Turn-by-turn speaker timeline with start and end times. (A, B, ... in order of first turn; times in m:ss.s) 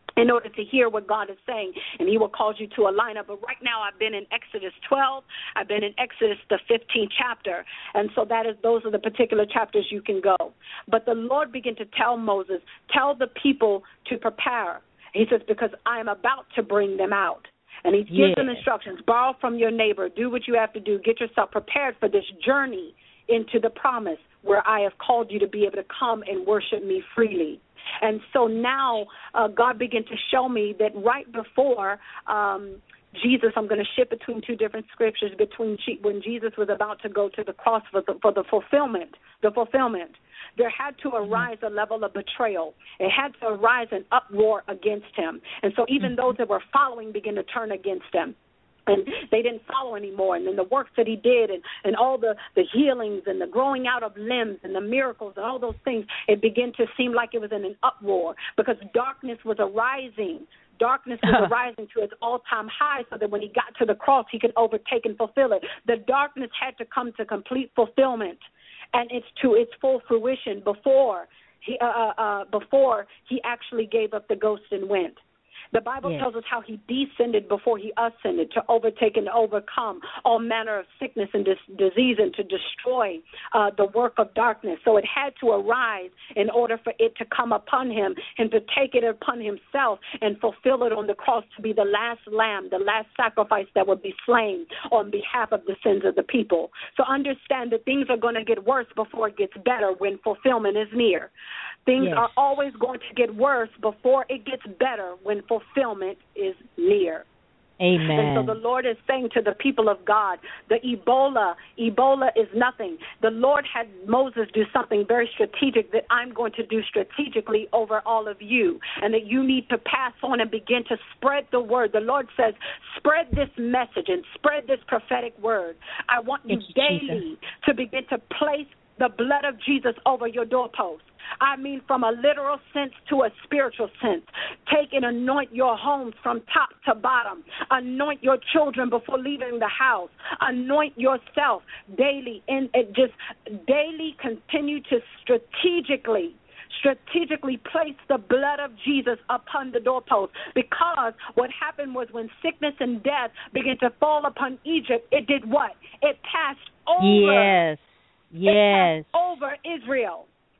0:00.2-0:48.3 A
0:18.1-0:18.6 B
0:48.9-1:08.4 A
1:01.2-1:01.5 B
1:08.9-1:15.2 A
1:15.7-1:41.3 A
1:41.8-1:47.2 A
1:42.0-1:42.3 B
1:47.8-1:48.6 B
1:48.1-2:37.6 A
2:06.5-2:07.2 B
2:37.0-2:39.3 B
2:38.4-2:40.3 A